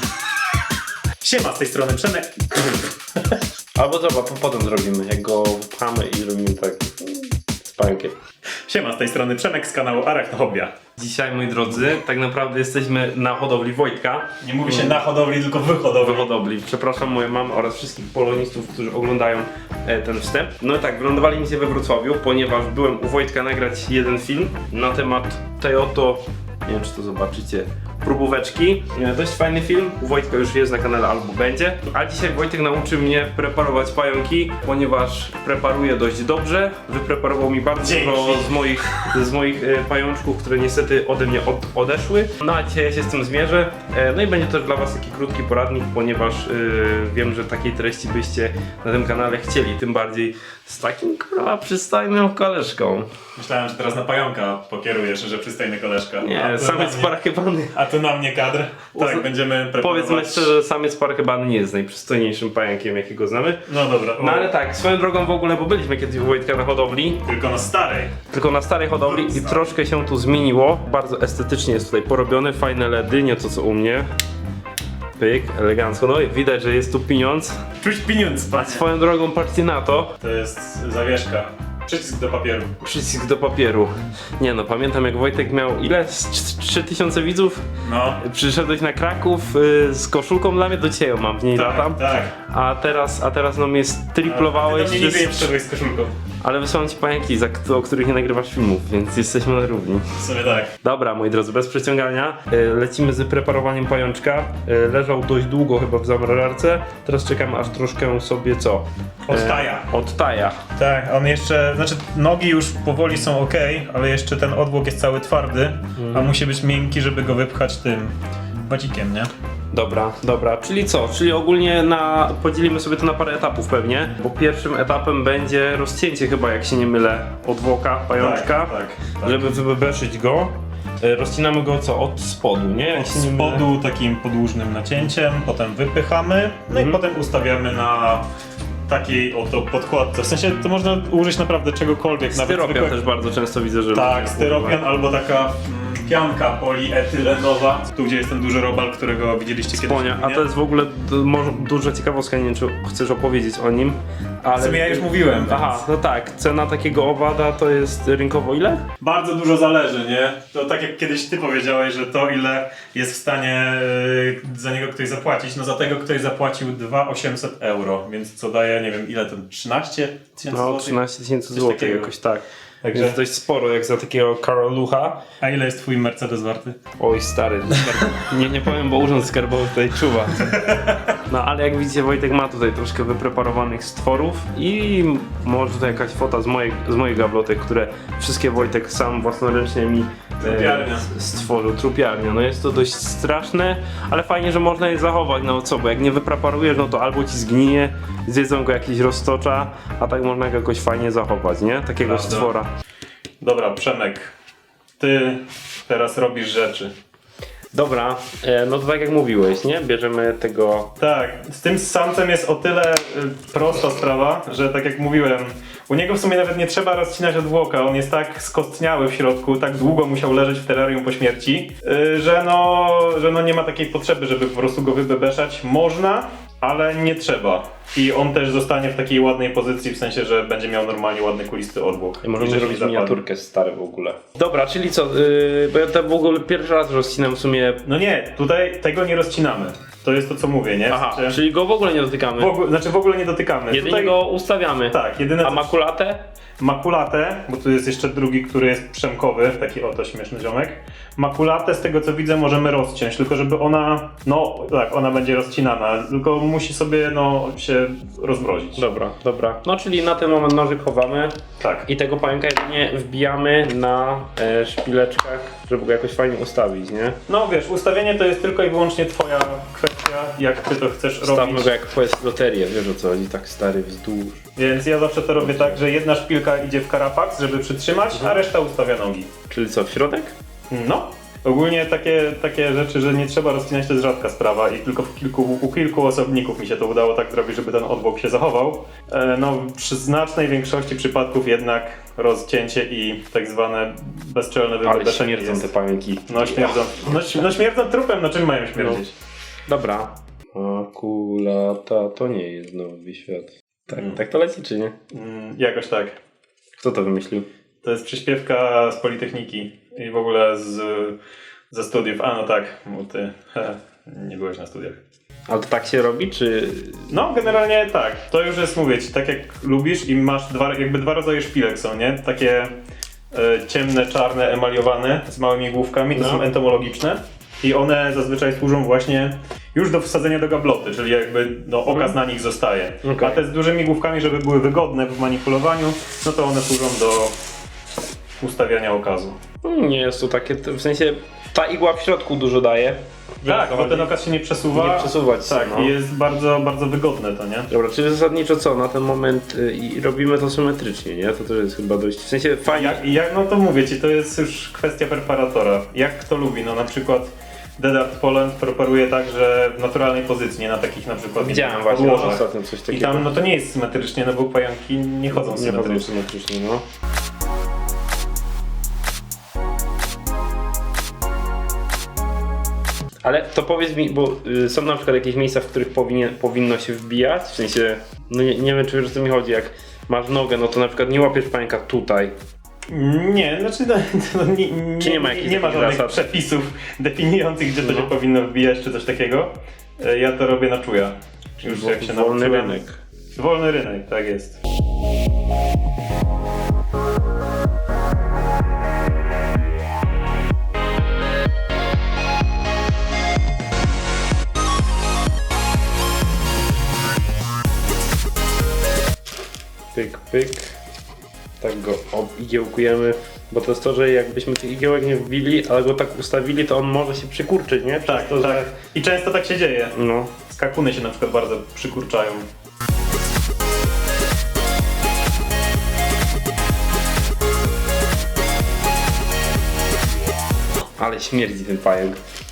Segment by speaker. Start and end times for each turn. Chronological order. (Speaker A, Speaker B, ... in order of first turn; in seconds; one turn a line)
Speaker A: 1.2-3.4
Speaker B: 3.8-8.2
Speaker A: 8.7-10.7
Speaker B: 11.0-15.0
Speaker A: 14.4-16.3
Speaker B: 16.0-53.1
Speaker A: 37.8-39.2
Speaker A: 53.4-57.1
Speaker B: 56.2-57.8
Speaker A: 57.7-60.5
Speaker B: 59.0-59.2
Speaker B: 59.8-63.6
Speaker A: 63.7-64.5
Speaker B: 64.2-67.2
Speaker A: 67.2-68.2
Speaker B: 68.3-74.1
Speaker A: 69.0-69.8
Speaker B: 75.2-77.6
Speaker A: 77.8-78.8
Speaker B: 78.6-80.2
Speaker A: 80.2-82.7
Speaker B: 82.8-87.6
Speaker A: 87.8-88.2
Speaker B: 88.2-95.5
Speaker A: 91.5-92.3
Speaker A: 94.2-96.1
Speaker B: 96.4-100.1
Speaker A: 100.2-100.7
Speaker B: 100.8-110.6
Speaker A: 109.3-109.9
Speaker A: 110.8-119.3
Speaker B: 116.0-116.3
Speaker B: 119.7-133.7
Speaker A: 128.1-129.5
Speaker A: 132.9-138.3
Speaker B: 136.7-137.0
Speaker A: 138.9-143.0
Speaker B: 142.3-144.8
Speaker A: 143.9-150.5
Speaker B: 149.7-158.8
Speaker A: 154.5-155.8
Speaker A: 159.0-171.0
Speaker B: 170.5-175.2
Speaker A: 171.5-172.1
Speaker A: 172.8-173.2
Speaker A: 175.4-176.8
Speaker B: 177.0-180.6
Speaker A: 180.4-181.0
Speaker B: 181.2-202.7
Speaker A: 190.4-191.1
Speaker A: 202.0-202.5
Speaker A: 203.4-204.3
Speaker A: 205.0-206.9
Speaker B: 207.7-210.9
Speaker A: 211.0-233.2
Speaker B: 232.2-237.8
Speaker A: 237.8-241.4
Speaker B: 240.9-242.6
Speaker A: 242.4-244.2
Speaker B: 243.7-246.3
Speaker A: 244.9-245.8
Speaker A: 246.6-258.8
Speaker B: 258.8-267.2
Speaker A: 261.6-261.9
Speaker A: 267.3-271.7
Speaker B: 271.2-274.4
Speaker A: 274.6-279.3
Speaker B: 275.4-275.8
Speaker B: 278.1-278.4
Speaker B: 279.5-280.3
Speaker A: 280.7-295.7
Speaker B: 294.8-297.3
Speaker A: 296.3-299.1
Speaker B: 299.7-305.0
Speaker A: 305.1-306.2
Speaker B: 306.8-307.5
Speaker A: 307.8-311.2
Speaker A: 311.7-315.0
Speaker B: 315.5-317.1
Speaker A: 317.1-322.8
Speaker A: 323.3-337.3
Speaker B: 326.1-326.5
Speaker B: 331.9-332.1
Speaker B: 333.0-333.4
Speaker A: 338.4-339.4
Speaker B: 339.6-344.2
Speaker A: 343.4-347.7
Speaker B: 344.7-345.9
Speaker B: 347.7-353.0
Speaker A: 352.7-366.2
Speaker B: 361.4-363.3
Speaker B: 365.3-366.8
Speaker B: 373.2-382.4
Speaker A: 382.9-392.8
Speaker B: 385.0-386.3
Speaker B: 387.8-388.1
Speaker B: 391.6-393.0
Speaker A: 393.4-394.6
Speaker B: 409.9-410.7
Speaker B: 411.6-418.7
Speaker A: 418.1-419.9
Speaker B: 419.9-420.3
Speaker A: 420.5-422.5
Speaker B: 431.0-432.2